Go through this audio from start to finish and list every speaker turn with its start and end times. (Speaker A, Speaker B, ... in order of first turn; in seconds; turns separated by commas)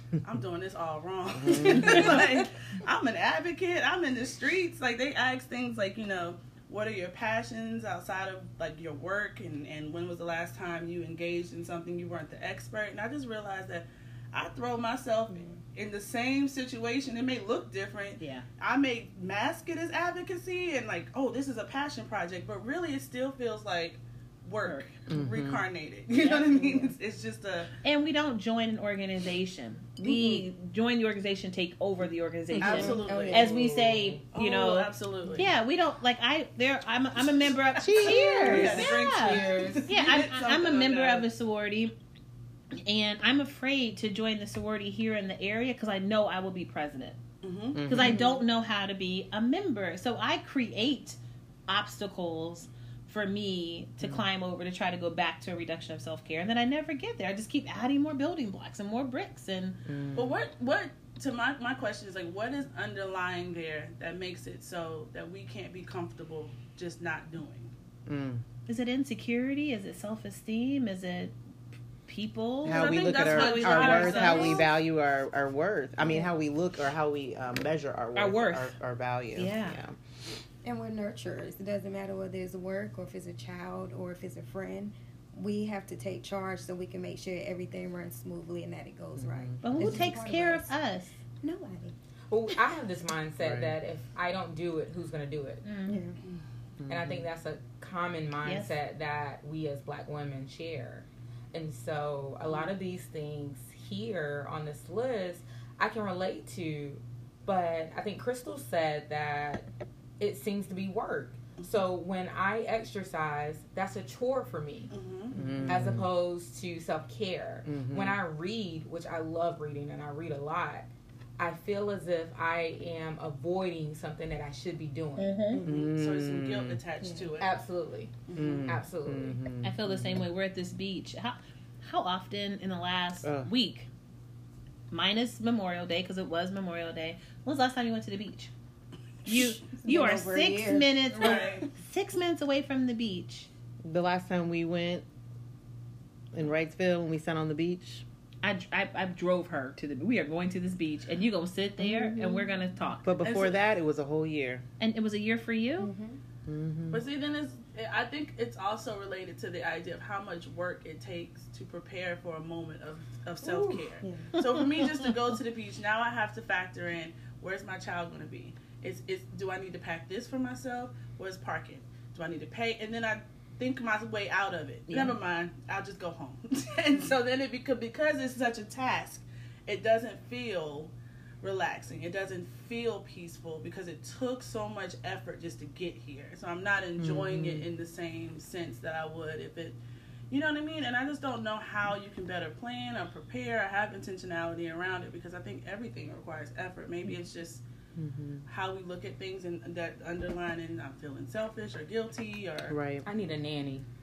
Speaker A: 0.2-27.7, Speaker B: 1.3-2.3, Speaker C: 18.2-18.4, Speaker B: 25.1-25.6, Speaker C: 27.8-41.9, Speaker B: 30.0-30.4, Speaker D: 32.5-33.5, Speaker A: 32.6-33.7, Speaker E: 33.4-34.2, Speaker A: 34.3-35.5, Speaker A: 37.3-41.2, Speaker B: 37.8-38.9, Speaker E: 38.5-39.9, Speaker C: 42.8-47.2, Speaker A: 47.4-48.1, Speaker B: 47.7-48.4, Speaker C: 47.8-59.8, Speaker B: 59.9-60.4, Speaker A: 60.1-67.7, Speaker B: 68.1-68.4, Speaker C: 68.7-71.3, Speaker C: 72.0-74.6, Speaker B: 72.6-80.0, Speaker A: 72.7-74.7, Speaker C: 78.1-78.7, Speaker C: 79.3-79.8, Speaker D: 80.6-90.7, Speaker B: 89.2-90.2, Speaker C: 89.6-91.2, Speaker D: 91.3-91.9, Speaker E: 92.3-95.6, Speaker B: 93.4-93.7, Speaker C: 95.6-96.0, Speaker D: 95.9-96.2, Speaker B: 96.8-97.2, Speaker E: 96.9-109.7, Speaker C: 98.4-98.7, Speaker E: 110.2-114.9, Speaker A: 114.9-115.7, Speaker B: 115.3-116.1, Speaker E: 115.7-120.9, Speaker B: 117.7-118.2, Speaker E: 121.4-125.4, Speaker C: 125.2-125.6, Speaker A: 125.5-127.5, Speaker B: 125.6-126.8, Speaker D: 127.0-127.3, Speaker E: 127.4-129.4, Speaker A: 128.2-128.7, Speaker B: 128.3-130.2, Speaker C: 129.6-133.9, Speaker B: 133.2-133.5, Speaker C: 134.9-138.5, Speaker C: 139.2-143.5, Speaker D: 139.3-141.6, Speaker A: 141.1-141.7, Speaker B: 143.8-145.1, Speaker B: 146.3-148.0, Speaker C: 148.4-153.0, Speaker B: 151.8-152.5, Speaker B: 153.0-154.6, Speaker A: 153.2-153.6, Speaker C: 154.8-155.9, Speaker D: 155.8-156.2, Speaker B: 156.4-157.0, Speaker A: 156.9-189.8, Speaker D: 164.0-164.3, Speaker C: 164.3-164.9, Speaker C: 174.9-175.2, Speaker B: 187.0-187.7, Speaker A: 190.3-197.6, Speaker B: 197.9-198.4, Speaker A: 198.5-202.8, Speaker B: 202.7-203.1, Speaker E: 203.0-203.8